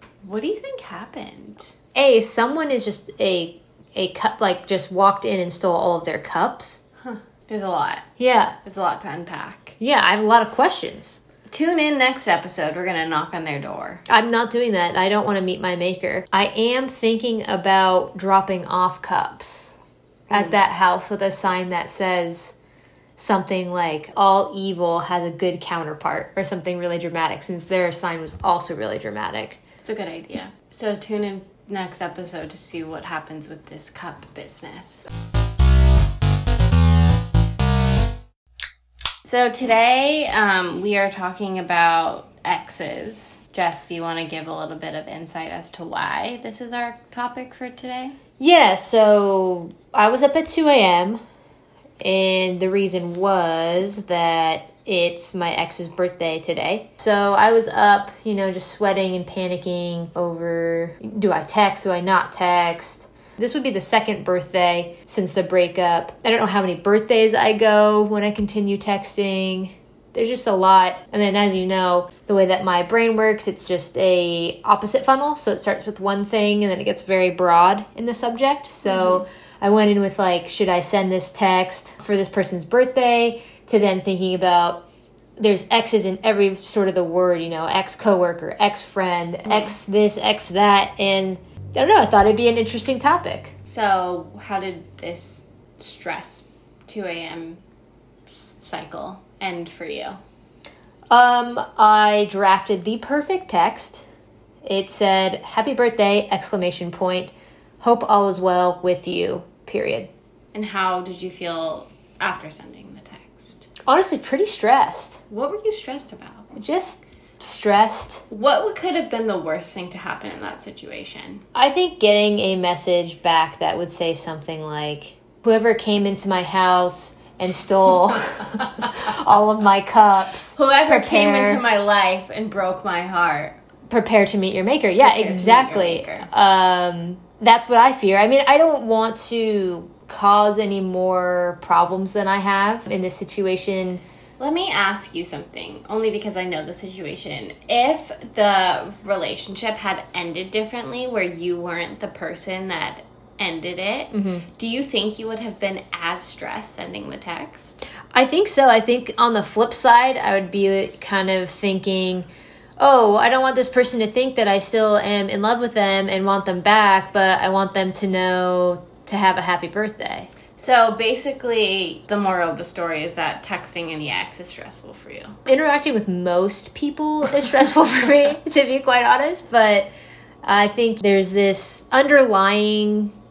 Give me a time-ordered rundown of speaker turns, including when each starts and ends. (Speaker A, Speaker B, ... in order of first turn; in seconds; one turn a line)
Speaker A: 0.2-1.7
Speaker B: 1.9-6.8
Speaker A: 7.0-8.1
Speaker B: 8.2-8.5
Speaker A: 8.6-9.8
Speaker B: 9.8-11.2
Speaker A: 11.5-14.0
Speaker B: 14.1-19.7
Speaker A: 20.3-20.5
Speaker B: 20.3-22.6
Speaker B: 23.2-29.6
Speaker A: 29.8-35.0
Speaker A: 39.2-48.2
Speaker B: 48.4-51.2
Speaker B: 52.0-84.8
Speaker A: 78.8-79.2
Speaker B: 85.4-93.5
Speaker A: 93.7-97.6
Speaker A: 98.3-100.2
Speaker B: 101.1-104.0
Speaker B: 104.6-110.1
Speaker A: 110.5-113.7
Speaker B: 113.8-115.2
Speaker A: 115.3-116.5
Speaker B: 116.5-118.2
Speaker A: 118.3-121.4
Speaker B: 121.5-131.6
Speaker A: 130.6-133.6
Speaker B: 133.9-144.0
Speaker A: 135.0-136.3
Speaker A: 144.4-157.8
Speaker B: 154.1-154.4
Speaker B: 158.1-170.3
Speaker A: 170.6-175.4
Speaker B: 175.4-179.9
Speaker B: 180.4-183.1